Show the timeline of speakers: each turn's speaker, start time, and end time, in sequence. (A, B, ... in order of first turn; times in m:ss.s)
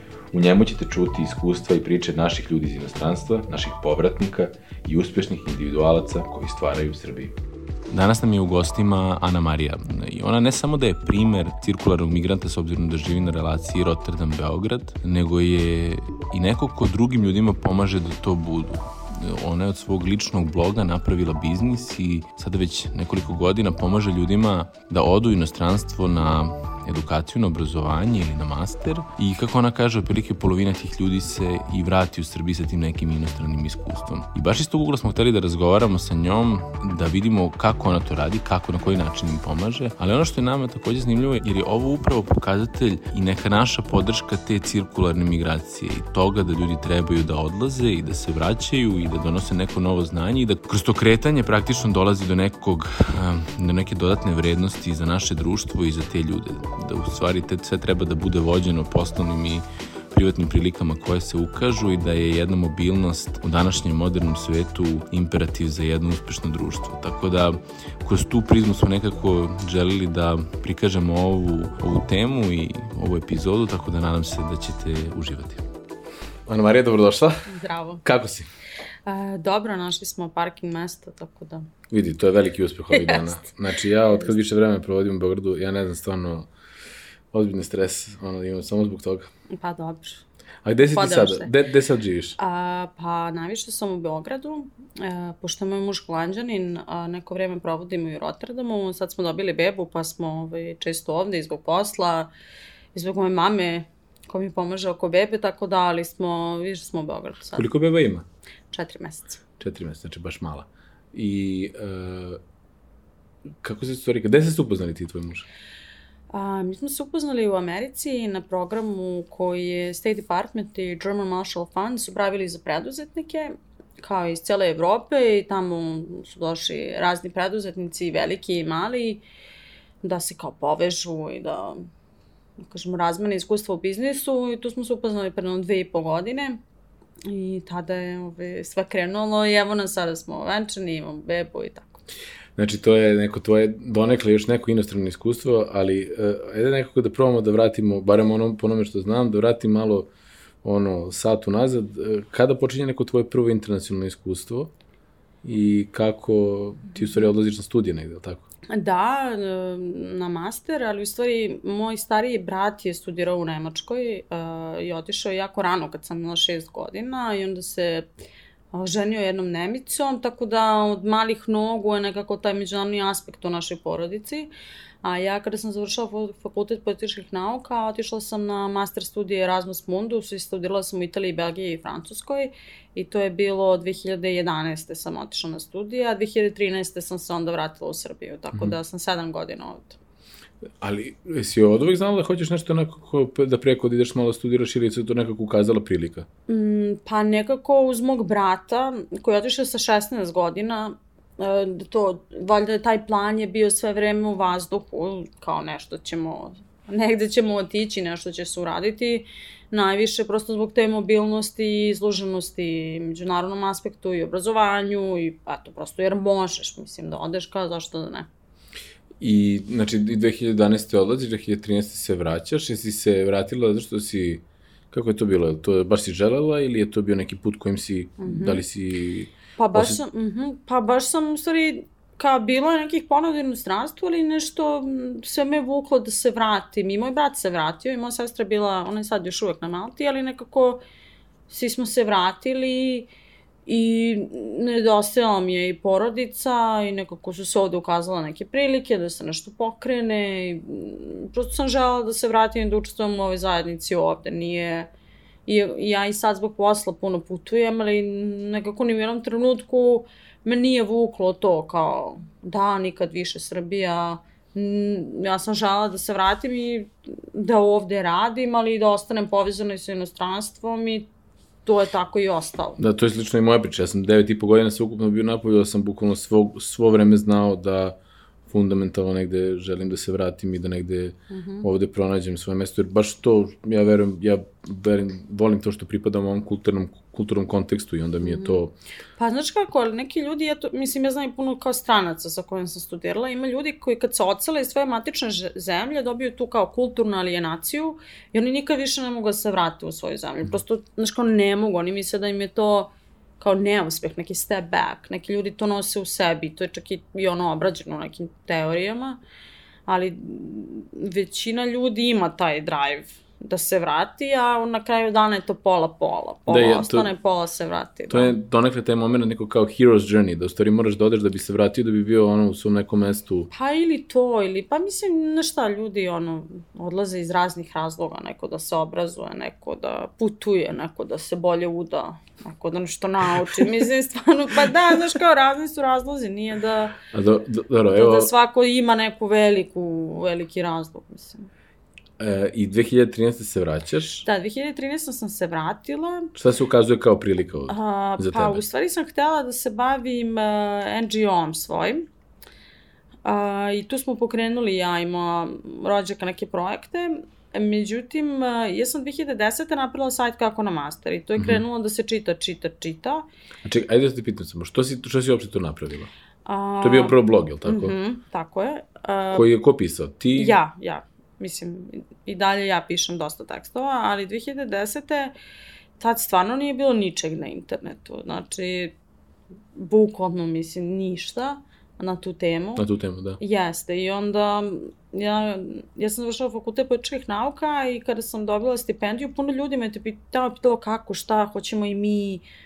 0:00.3-0:07.4 A
0:07.9-1:15.6 A
1:16.5-1:17.5 A
1:17.5-1:18.0 B
1:18.0-1:18.5 A
1:19.1-1:21.7 B
1:21.9-1:26.5 A
1:22.9-1:23.4 B
1:24.1-1:24.4 B
1:27.3-1:29.3 A
1:29.5-1:30.2 B
1:30.6-1:32.4 A
1:30.9-1:31.5 B
1:32.4-1:42.3 B
1:42.9-1:47.6 B
1:47.6-1:48.2 A
1:48.7-1:49.4 B
1:49.6-1:52.4 A
1:53.6-1:55.5 A
1:56.3-2:09.2 B
2:10.0-2:11.8 B
2:12.6-2:16.6 B
2:17.2-2:22.0 B
2:22.6-2:30.1 A
2:30.6-2:34.7 A
2:35.4-2:38.5 A
2:38.7-2:48.1 B
2:48.7-2:54.5 B
2:55.0-3:10.0 B
3:10.8-3:16.3 A
3:16.5-3:38.3 B
3:39.2-3:50.0 A
3:48.2-3:48.6 B
3:49.6-4:00.8 B
4:01.5-4:03.1 B
4:03.7-4:14.9 B
4:15.5-4:31.1 B
4:31.6-4:32.8 B
4:32.8-4:38.0 A
4:38.5-4:48.8 A
4:41.3-4:41.7 B
4:48.2-4:48.6 B
4:49.2-5:09.2 B
5:09.9-5:18.4 B
5:16.5-5:17.1 A
5:18.1-5:23.5 A
5:23.5-5:37.0 B
5:37.1-5:38.3 A
5:37.9-5:41.5 B
5:42.2-5:44.3 A
5:44.2-5:46.3 B
5:46.4-5:48.6 A
5:47.7-5:52.1 B
5:53.2-6:03.2 B
6:01.4-6:01.6 A
6:03.6-6:06.1 A
6:06.5-6:09.4 B
6:06.8-6:08.0 A
6:09.3-6:10.6 A
6:10.3-6:15.4 B
6:16.0-6:18.9 B
6:19.7-6:22.8 B
6:22.8-6:23.4 A
6:23.4-6:32.4 B